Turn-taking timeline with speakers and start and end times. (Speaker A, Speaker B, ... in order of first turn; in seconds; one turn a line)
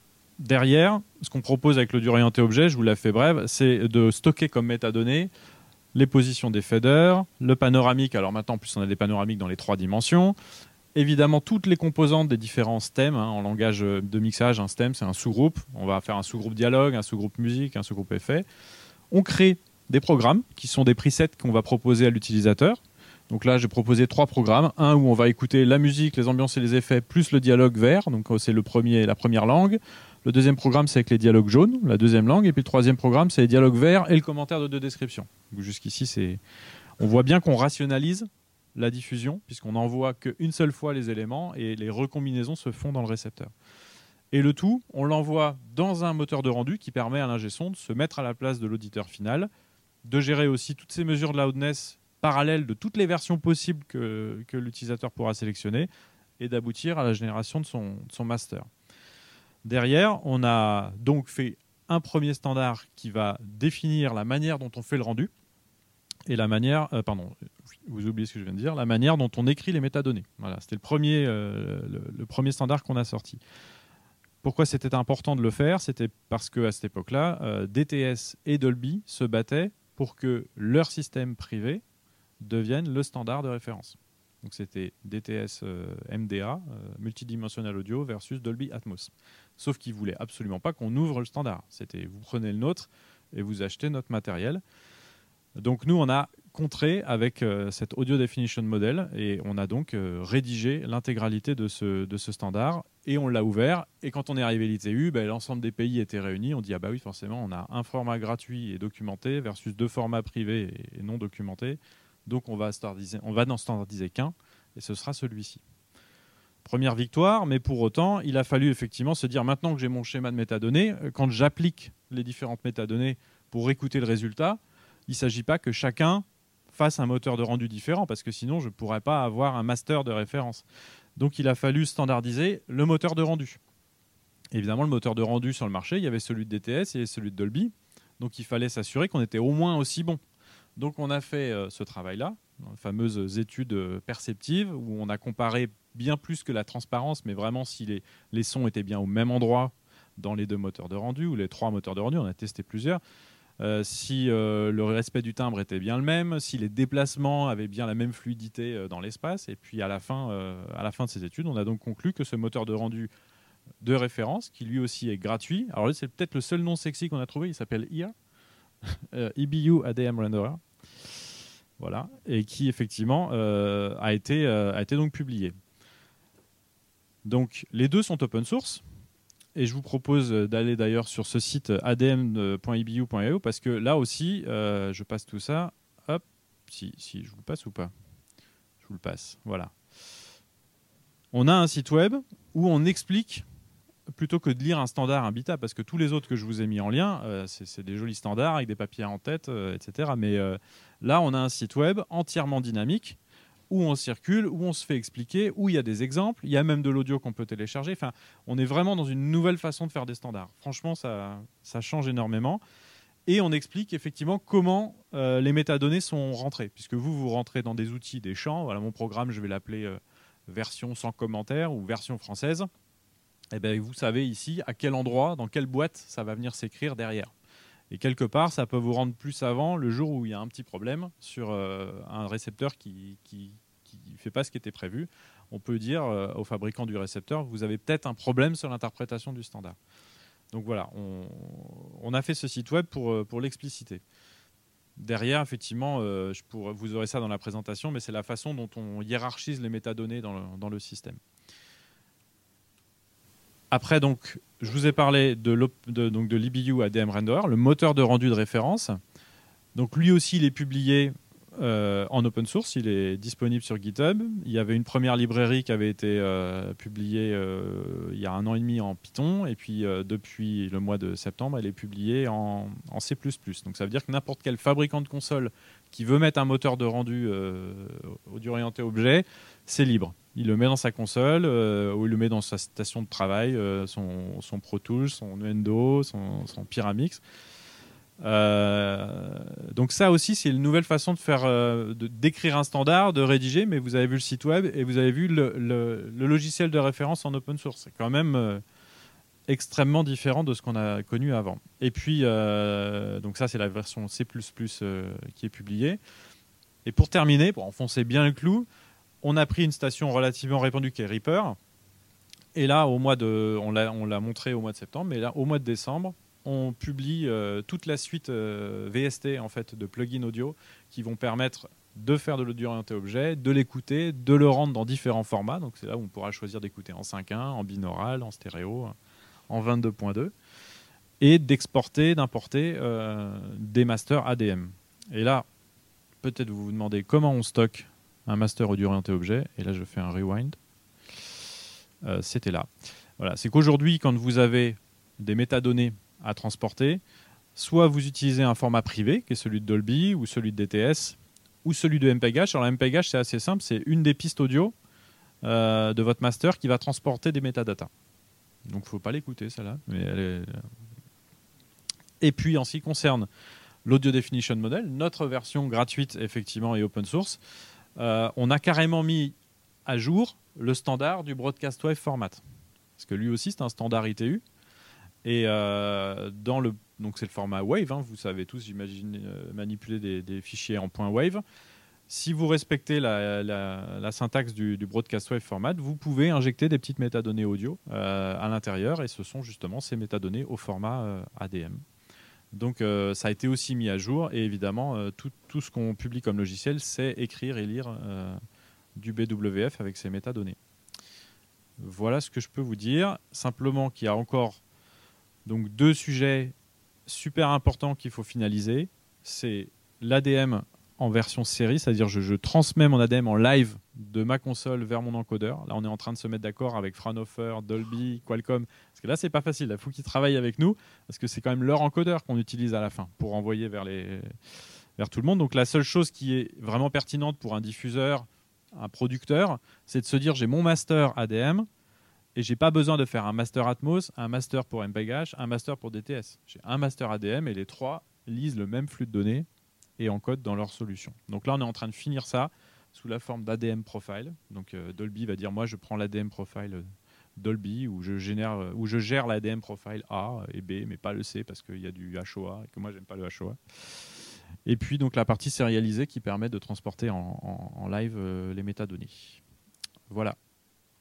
Speaker A: 0.4-5.3
Speaker A: 5.9-10.3
Speaker A: 10.9-18.4
Speaker A: 19.1-36.4
Speaker A: 37.0-43.5
Speaker A: 44.3-49.5
Speaker A: 50.0-58.7
Speaker A: 59.6-65.3
Speaker A: 66.2-67.3
Speaker A: 67.8-73.4
Speaker A: 74.4-81.8
Speaker A: 82.4-94.6
Speaker A: 95.6-115.6
Speaker A: 116.6-130.6
Speaker A: 131.2-133.6
Speaker A: 134.5-140.2
Speaker A: 140.8-153.0
Speaker A: 153.6-163.1
Speaker A: 163.8-168.1
Speaker A: 168.8-171.2
Speaker A: 171.8-175.6
Speaker A: 177.2-178.8
Speaker A: 179.5-187.9
Speaker A: 188.8-189.7
Speaker A: 191.3-193.4
Speaker A: 194.1-203.2
Speaker A: 203.7-212.6
Speaker A: 213.3-222.7
Speaker A: 223.5-227.3
Speaker A: 227.9-239.8
Speaker A: 240.5-244.0
Speaker A: 245.0-251.2
Speaker A: 253.7-259.0
Speaker A: 259.7-287.2
Speaker A: 288.2-298.6
Speaker A: 299.5-306.0
Speaker A: 306.8-308.7
Speaker A: 309.2-311.6
Speaker A: 312.5-328.9
Speaker A: 329.5-330.3
Speaker A: 331.2-335.4
Speaker A: 336.2-340.6
Speaker A: 342.0-347.0
Speaker A: 347.6-354.7
Speaker A: 355.4-357.9
Speaker A: 358.7-360.6
Speaker A: 362.2-363.3
Speaker A: 363.8-367.4
Speaker A: 367.9-369.3
Speaker A: 369.9-372.4
Speaker A: 373.0-374.4
Speaker A: 375.2-381.4
Speaker A: 382.1-391.8
Speaker A: 392.5-398.4
Speaker A: 398.9-400.6
Speaker A: 401.8-404.6
Speaker A: 405.4-406.5
Speaker A: 407.1-424.3
Speaker A: 425.0-431.7
Speaker A: 432.3-439.5
Speaker A: 440.0-453.6
Speaker A: 454.6-459.4
Speaker A: 460.1-460.4